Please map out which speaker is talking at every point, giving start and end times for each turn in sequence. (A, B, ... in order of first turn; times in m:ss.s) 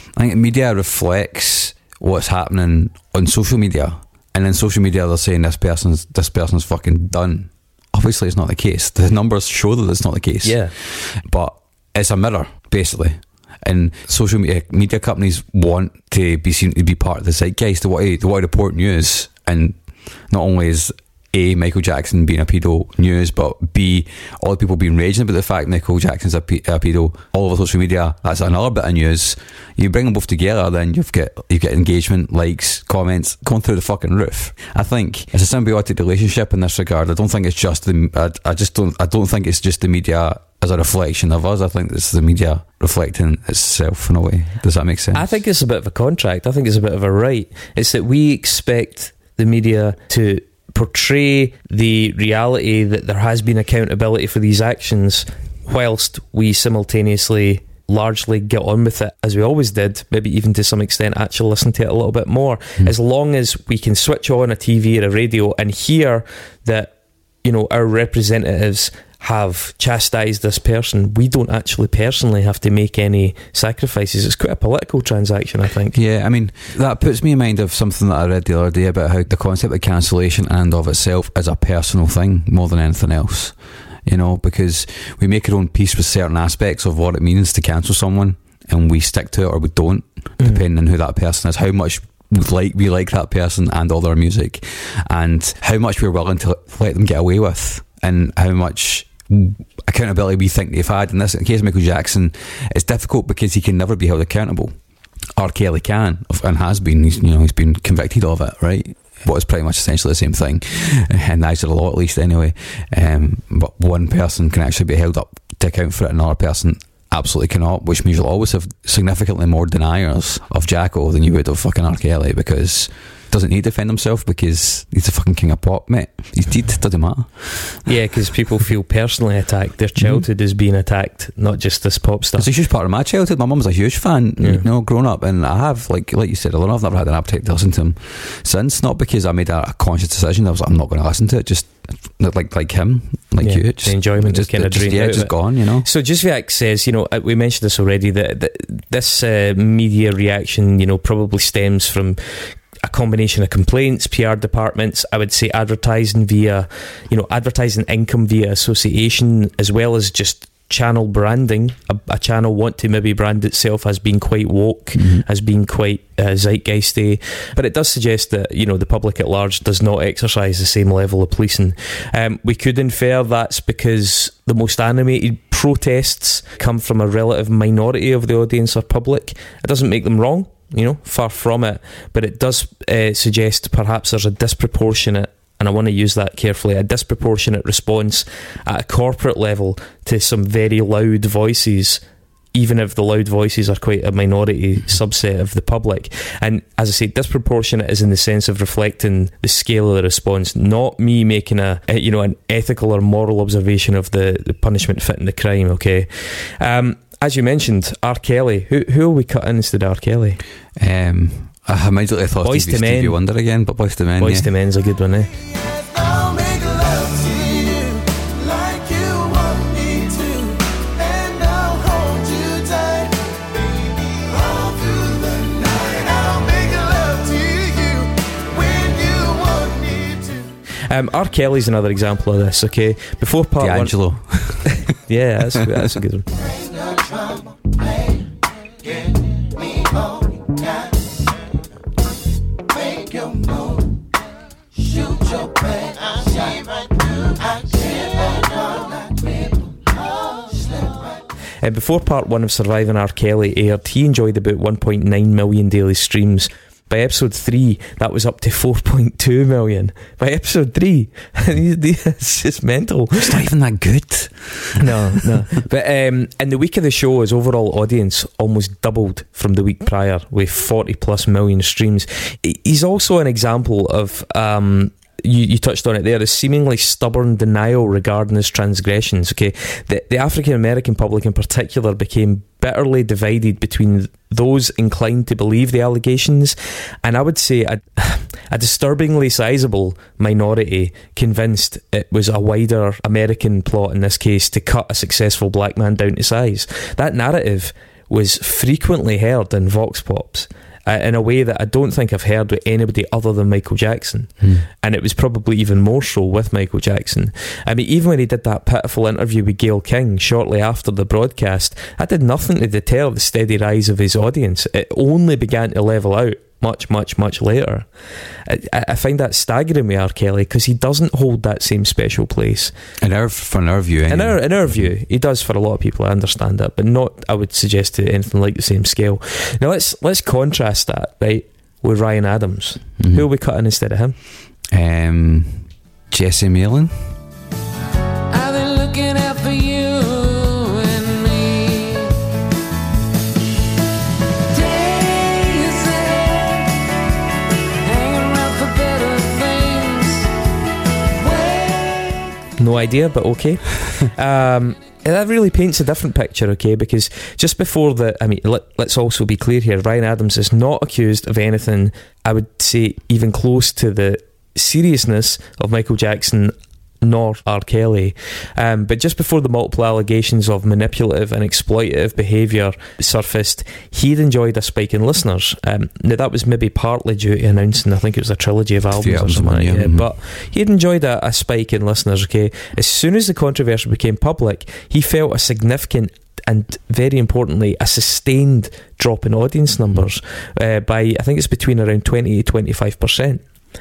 0:00.2-0:45.2 A
0:10.4-0:10.7 B
0:45.1-1:06.9 B
1:07.4-1:16.0 B
1:15.9-1:44.7 A
1:45.4-2:07.8 A
2:07.8-2:12.5 B
2:10.0-2:10.2 A
2:12.4-2:25.9 A
2:14.4-2:14.6 B
2:23.4-3:12.0 B
2:44.9-2:45.2 A
3:12.5-3:30.4 B
3:30.8-3:34.5 A
3:32.4-3:33.2 B
3:34.2-3:35.3 B
3:35.5-3:50.5 C
3:50.9-3:53.9 B
3:53.6-3:54.9 A
3:54.7-3:56.3 B
3:56.4-3:57.8 C
3:59.6-4:00.6 C
4:02.8-4:03.6 C
4:05.0-4:06.5 C
4:07.1-4:08.9 C
4:11.6-4:23.3 B
4:23.2-4:25.4 A
4:24.8-5:17.9 B
5:18.4-5:22.7 B
5:23.0-5:24.9 A
5:24.1-5:34.2 B
5:33.0-5:33.2 A
5:34.7-5:37.2 A
5:38.3-5:42.1 C
5:44.5-5:46.7 C
5:47.8-5:50.2 C
5:51.2-5:52.2 C
5:52.6-6:33.4 B
6:18.9-6:20.1 A